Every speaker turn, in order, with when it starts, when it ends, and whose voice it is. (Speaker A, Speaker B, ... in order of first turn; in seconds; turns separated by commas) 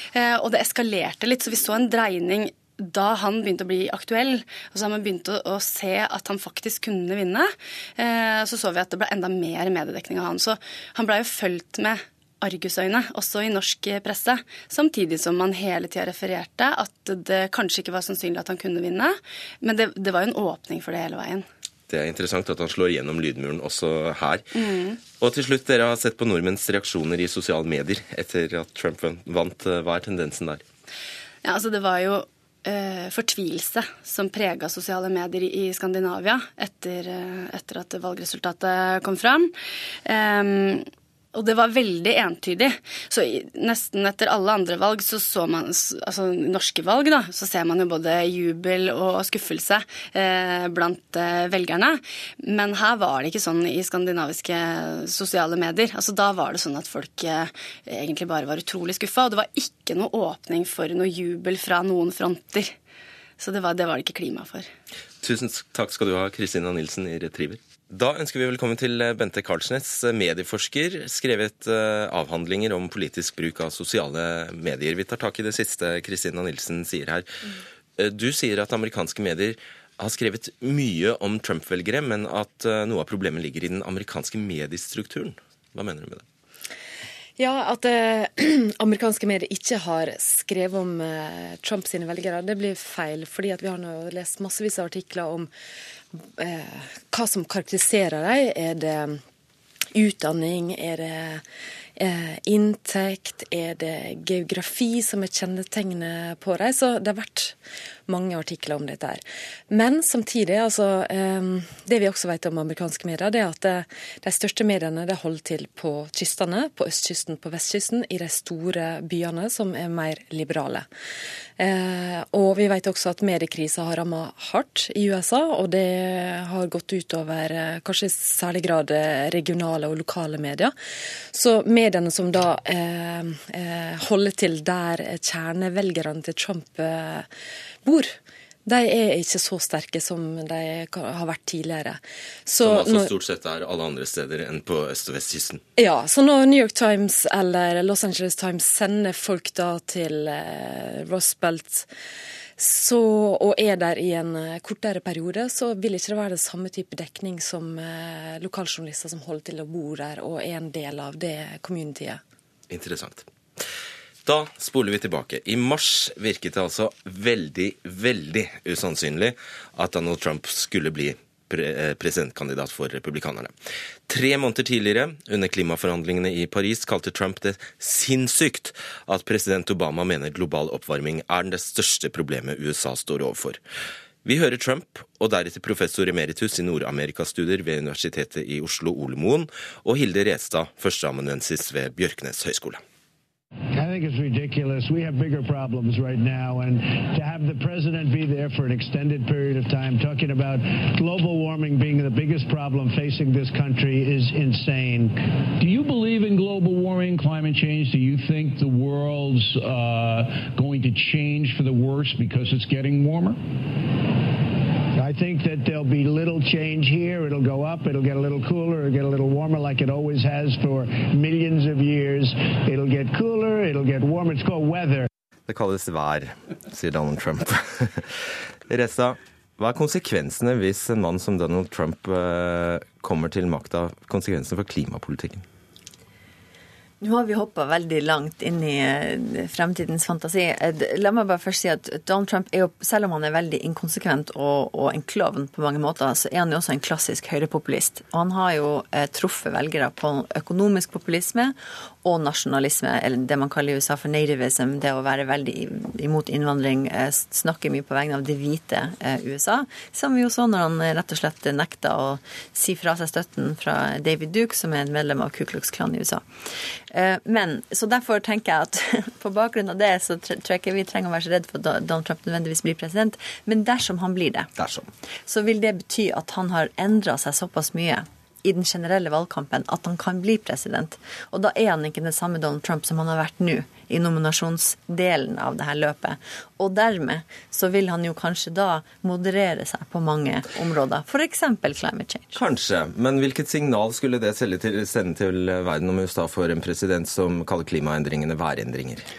Speaker A: 0.1-21.5, Speaker B: 21.9-24.4, Speaker A: 24.6-25.0, Speaker B: 25.2-30.6, Speaker A: 31.4-39.5, Speaker A: 40.1-62.8, Speaker A: 63.4-64.7, Speaker B: 65.2-77.3, Speaker B: 78.0-86.2, Speaker C: 87.4-95.5, Speaker C: 96.2-99.2, Speaker C: 99.9-101.4, Speaker C: 102.0-107.6, Speaker C: 108.1-120.9, Speaker C: 121.6-130.7, Speaker C: 131.3-137.3, Speaker C: 137.8-143.1, Speaker B: 142.6-145.6, Speaker C: 145.8-151.9, Speaker C: 152.6-162.2, Speaker B: 162.7-163.3, Speaker B: 164.2-173.5, Speaker B: 174.1-183.6, Speaker B: 184.2-192.8, Speaker D: 193.7-205.2, Speaker E: 205.6-213.4, Speaker D: 215.0-225.1, Speaker B: 225.5-228.1, Speaker B: 228.7-235.4, Speaker F: 237.0-266.3, Speaker F: 266.9-274.5, Speaker B: 274.6-274.9, Speaker F: 275.3-292.4, Speaker B: 292.3-299.1